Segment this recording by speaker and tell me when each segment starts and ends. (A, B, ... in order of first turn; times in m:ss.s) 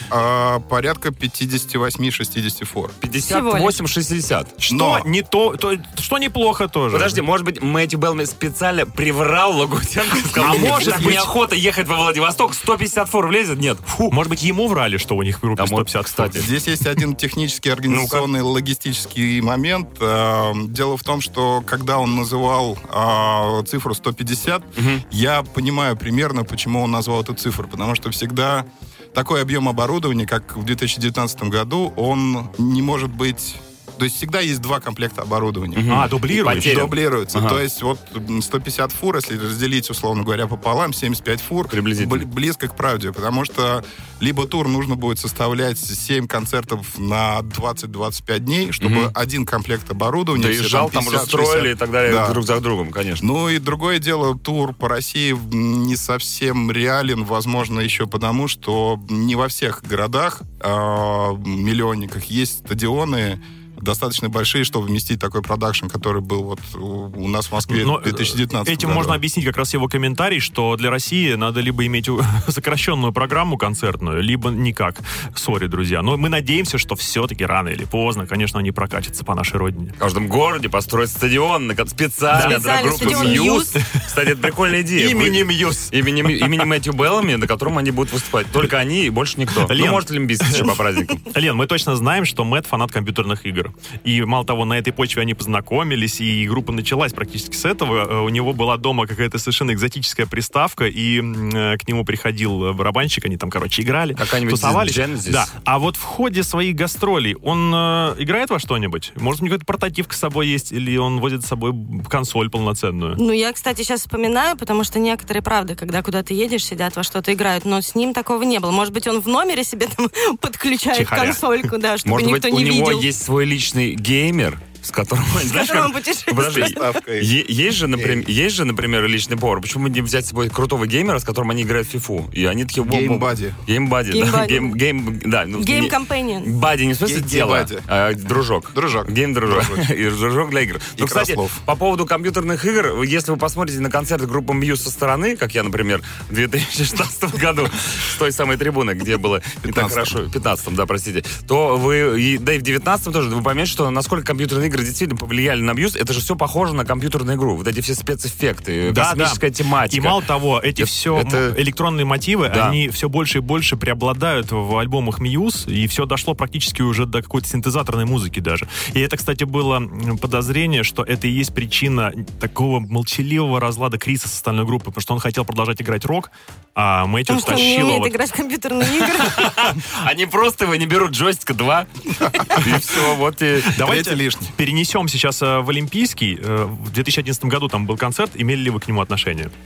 0:00.1-0:03.0 A
0:03.0-0:04.6 B
0:03.2-0:03.8 C
0:04.6-0:07.2 D
0:04.7-0:05.1 A
0:06.9-0:14.2 B
0:10.4-0:11.2 A
0:10.4-0:11.3 D
0:14.1-0:16.5 D
0:15.6-0:16.5 B
0:16.3-0:52.4 A
0:17.9-0:18.3 B
0:24.8-0:25.0 B
0:35.8-0:37.6 B
0:35.9-0:36.9 D
0:41.7-0:42.3 B
0:48.8-0:49.1 B
0:50.4-0:53.2 B
0:53.2-1:09.2 A
1:07.7-1:20.0 D
1:20.0-1:31.2 B
1:22.3-1:23.8 C
1:22.3-1:24.1 D
1:24.9-1:26.7 D
1:29.6-1:53.2 D
1:44.2-1:45.5 B
1:53.2-2:03.1 C
2:00.9-2:01.4 D
2:02.0-2:40.2 B
2:05.4-2:06.8 C
2:06.4-2:07.3 A
2:07.9-2:08.3 A
2:12.8-2:13.6 A
2:14.1-2:14.8 C
2:15.6-2:16.5 C
2:17.0-2:17.9 A
2:18.7-2:19.9 A
2:21.0-2:21.6 A
2:29.6-2:30.2 A
2:38.9-2:58.2 D
2:40.8-2:41.6 B
2:42.5-2:42.8 B
2:57.3-2:59.7 C
2:59.2-3:03.8 B
3:02.3-3:02.7 A
3:03.7-3:09.5 D
3:03.8-3:04.5 A